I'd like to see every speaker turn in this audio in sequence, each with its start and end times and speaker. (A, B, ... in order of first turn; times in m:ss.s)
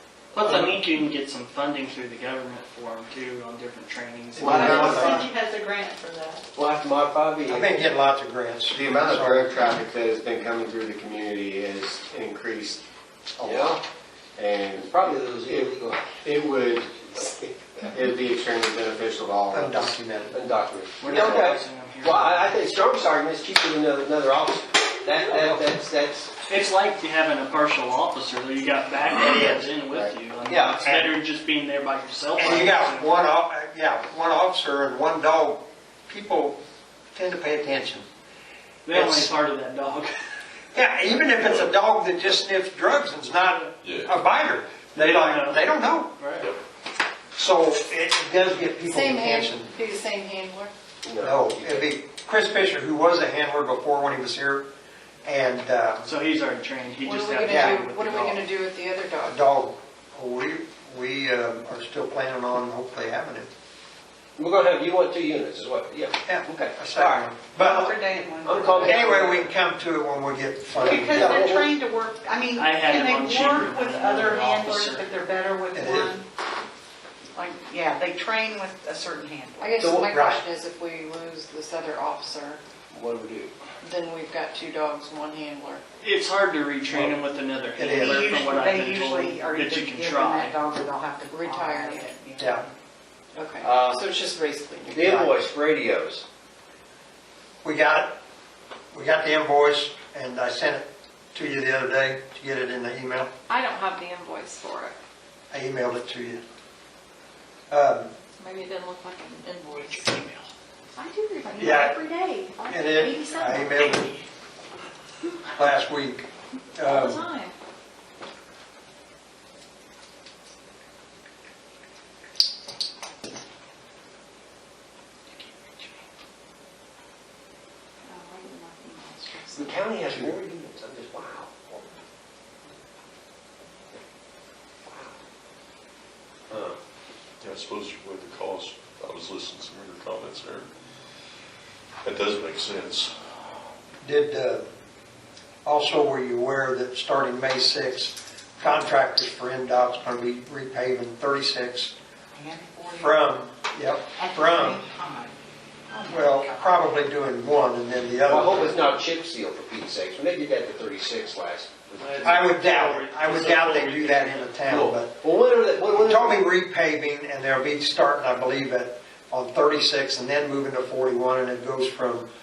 0:00.3-0:05.1 A
0:04.4-0:05.3 B
0:04.4-0:05.2 C
0:04.4-0:05.1 D
0:06.5-0:07.9 B
0:07.5-0:09.6 C
0:08.7-0:12.8 D
0:13.4-0:13.8 D
0:13.4-0:13.8 B
0:14.4-0:15.7 D
0:14.8-0:16.2 B
0:16.2-0:19.9 D
0:19.5-0:20.4 C
0:20.3-0:26.3 B
0:21.0-0:22.6 A
0:25.3-0:25.7 C
0:26.5-0:33.1 A
0:29.2-0:29.7 C
0:30.5-0:31.1 B
0:32.4-0:36.6 C
0:37.1-0:38.0 C
0:38.8-0:40.1 A
0:38.9-0:39.3 C
0:40.7-0:46.1 C
0:41.4-0:41.7 E
0:43.8-0:44.1 E
0:45.0-0:46.5 A
0:47.4-0:49.7 C
0:48.8-0:50.7 F
0:51.0-0:51.9 B
0:51.2-0:54.7 C
0:55.2-0:56.1 C
0:56.0-0:58.5 A
0:57.0-0:59.4 F
0:57.4-0:57.8 C
0:59.2-1:03.5 C
1:04.4-1:07.3 B
1:06.2-1:08.0 C
1:07.7-1:08.7 G
1:08.4-1:09.5 B
1:08.7-1:11.6 C
1:10.8-1:11.7 B
1:10.9-1:16.2 G
1:12.6-1:15.2 A
1:15.7-1:16.1 C
1:17.4-1:19.6 G
1:18.7-1:19.6 H
1:19.6-1:22.6 F
1:19.8-1:20.1 B
1:20.0-1:20.4 C
1:22.9-1:23.5 B
1:23.8-1:25.8 F
1:26.0-1:30.6 A
1:27.8-1:28.4 C
1:28.2-1:32.7 G
1:31.2-1:32.2 F
1:32.4-1:32.6 C
1:33.3-1:35.3 F
1:33.6-1:34.0 B
1:34.9-1:36.2 B
1:35.0-1:35.3 C
1:37.6-1:38.2 C
1:38.9-1:43.3 C
1:43.5-1:45.0 H
1:45.5-1:46.4 C
1:47.7-1:48.1 C
1:48.4-1:50.2 H
1:49.8-1:50.5 A
1:50.9-1:53.8 H
1:51.6-1:52.0 C
1:52.7-1:54.1 C
1:55.6-1:57.3 C
1:56.8-1:57.5 H
2:08.1-2:08.6 F
2:08.2-2:09.7 H
2:09.5-2:12.0 B
2:14.9-2:15.2 B
2:16.5-2:16.8 B
2:17.4-2:20.7 E
2:22.0-2:23.1 E
2:24.0-2:24.6 C
2:25.6-2:31.9 C
2:32.3-2:33.0 G
2:32.9-2:34.8 C
2:34.2-2:35.3 G
2:35.9-2:36.6 G
2:36.1-2:38.8 C
2:38.3-2:42.6 B
2:42.0-2:44.5 A
2:42.2-2:45.1 C
2:44.7-2:46.4 B
2:45.9-2:52.3 C